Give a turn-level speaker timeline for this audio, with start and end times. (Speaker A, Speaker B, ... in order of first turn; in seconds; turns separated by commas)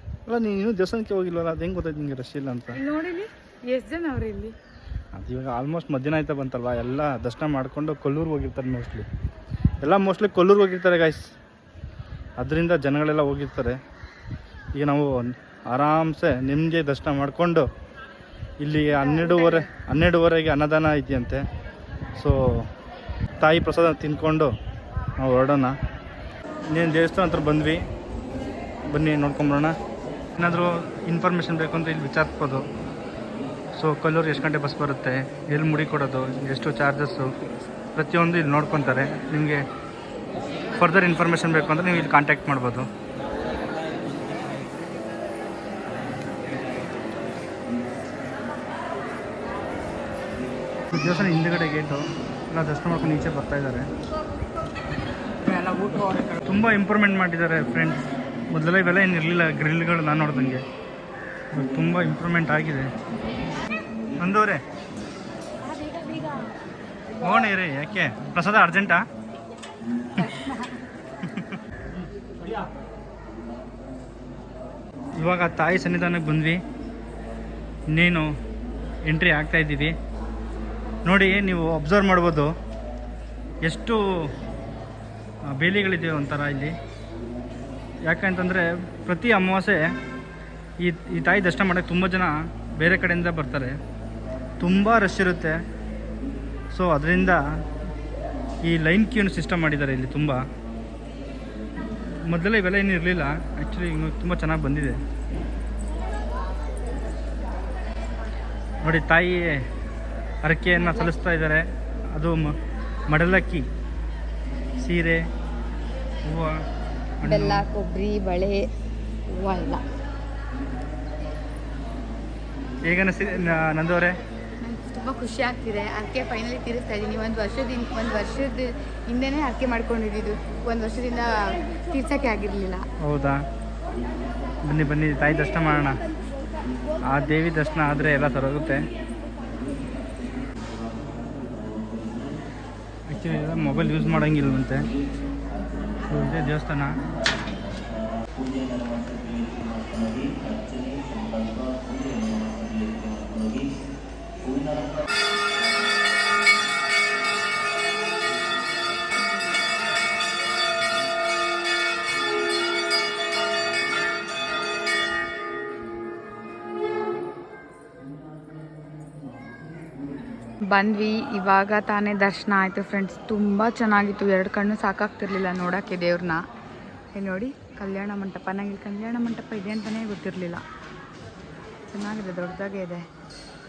Speaker A: 0.3-2.8, Speaker B: 2.7-4.6, Speaker A: 5.2-9.1, Speaker A: 9.8-11.2, Speaker A: 12.4-13.8, Speaker A: 14.7-17.7, Speaker A: 18.6-21.5, Speaker B: 18.9-19.7, Speaker A: 22.2-22.7, Speaker A: 23.4-24.5, Speaker A: 25.2-25.8, Speaker A: 26.7-27.8, Speaker A: 28.9-29.8, Speaker A: 30.4-32.7, Speaker A: 33.8-39.7, Speaker A: 40.8-42.9, Speaker A: 50.9-53.9, Speaker B: 55.5-56.4, Speaker A: 56.4-60.6, Speaker A: 61.5-62.9, Speaker A: 64.2-64.6, Speaker B: 65.6-66.5, Speaker A: 67.2-69.0, Speaker B: 70.2-70.8, Speaker A: 71.2-71.6, Speaker A: 75.2-76.6, Speaker A: 77.9-78.3, Speaker A: 79.0-80.0, Speaker A: 81.0-82.5, Speaker A: 83.6-84.0, Speaker A: 85.6-86.7, Speaker A: 88.0-89.9, Speaker A: 90.8-93.8, Speaker A: 94.6-95.6, Speaker A: 96.7-97.4, Speaker A: 98.6-100.5, Speaker A: 102.2-105.0, Speaker A: 108.8-109.6, Speaker A: 110.4-112.6, Speaker B: 110.8-111.2, Speaker A: 113.1-113.7, Speaker A: 114.8-115.3, Speaker A: 116.2-116.6, Speaker A: 117.2-117.7, Speaker B: 117.2-118.7, Speaker B: 119.3-119.8, Speaker A: 122.9-124.2, Speaker B: 124.6-132.9, Speaker A: 133.0-133.4, Speaker A: 134.6-136.0, Speaker A: 137.0-138.9, Speaker A: 143.1-144.9, Speaker A: 146.1-147.0, Speaker B: 170.7-176.4, Speaker B: 177.1-180.6, Speaker B: 181.9-183.0